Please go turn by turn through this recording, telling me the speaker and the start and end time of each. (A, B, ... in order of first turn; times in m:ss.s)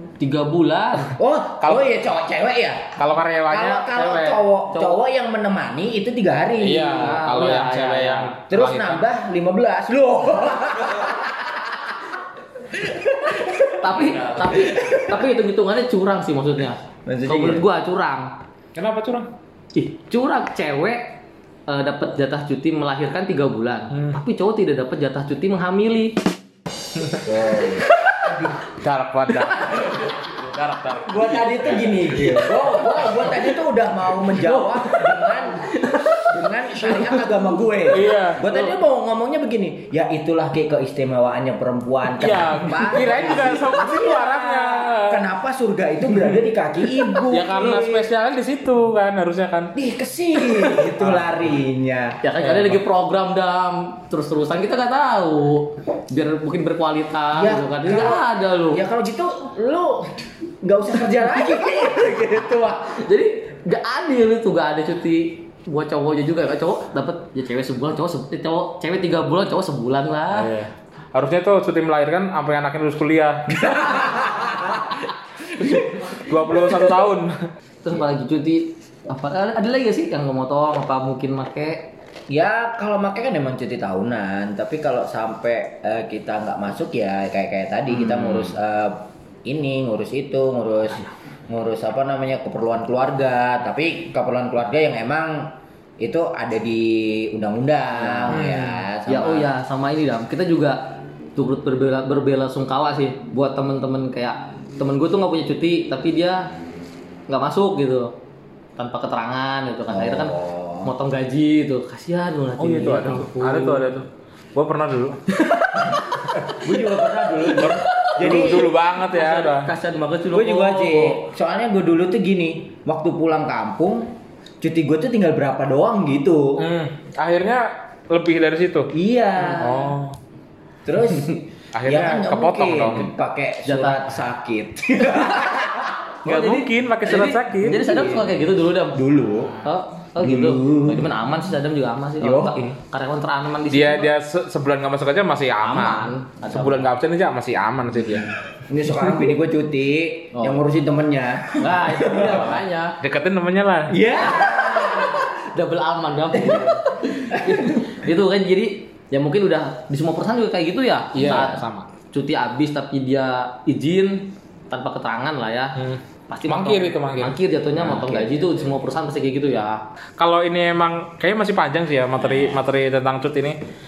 0:00.2-0:01.2 A
0:01.1-0:07.2 B
0:01.6-0:01.9 C
0:03.0-0:04.4 C
0:04.7-0:05.0 A
0:06.6-0:09.0 C
0:06.8-0:08.4 A
0:08.5-0:15.1 B
0:13.7-0:18.3 A
0:17.1-0:17.7 B
0:18.8-0:19.3 C
0:19.8-0:26.2 A
0:23.9-0:24.2 C
0:27.2-0:27.9 B
0:28.6-0:32.3 C
0:31.1-0:48.1 B
0:34.3-0:37.3 A
0:37.9-0:38.4 C
0:42.2-0:45.3 C
0:47.2-0:49.7 C
0:49.8-0:52.2 B
0:51.0-0:51.3 C
0:52.2-0:58.8 A
0:52.4-0:52.8 C
0:57.3-1:03.0 B
1:02.9-1:10.5 A
1:10.3-1:14.4 C
1:13.8-1:14.9 B
1:15.6-1:16.1 B
1:15.6-1:17.4 C
1:17.8-1:21.9 A
1:22.3-1:39.5 B
1:27.9-1:28.5 A
1:38.0-1:38.4 A
1:38.3-1:38.8 C
1:39.1-1:46.5 A
1:47.3-1:48.1 A
1:48.8-1:54.0 A
1:49.9-1:50.9 B
1:52.6-1:55.2 C
1:55.3-1:56.0 A
1:56.5-1:58.7 B
1:57.6-2:01.3 A
1:57.6-1:59.7 C
2:00.3-2:06.6 B
2:06.6-2:08.9 C
2:08.9-2:10.0 B
2:09.5-2:10.2 C
2:10.8-2:16.0 B
2:11.7-2:13.1 C
2:13.6-2:14.2 A
2:16.2-2:17.9 C
2:16.2-2:19.0 A
2:17.8-2:19.6 B
2:19.6-2:24.1 A
2:20.2-2:21.2 B
2:22.2-2:22.7 B
2:23.7-2:28.3 C
2:25.6-2:26.9 A
2:28.7-2:32.5 B
2:30.4-2:30.6 A
2:31.6-2:33.0 A
2:33.0-2:34.0 C
2:33.9-2:35.2 B
2:34.2-2:45.8 A
2:36.4-2:36.8 B
2:37.3-2:37.9 B
2:41.2-2:41.9 C
2:41.2-2:41.5 B
2:45.8-2:47.4 C
2:46.3-2:49.8 A
2:47.8-2:48.7 B
2:50.2-2:53.6 C
2:52.2-2:52.6 A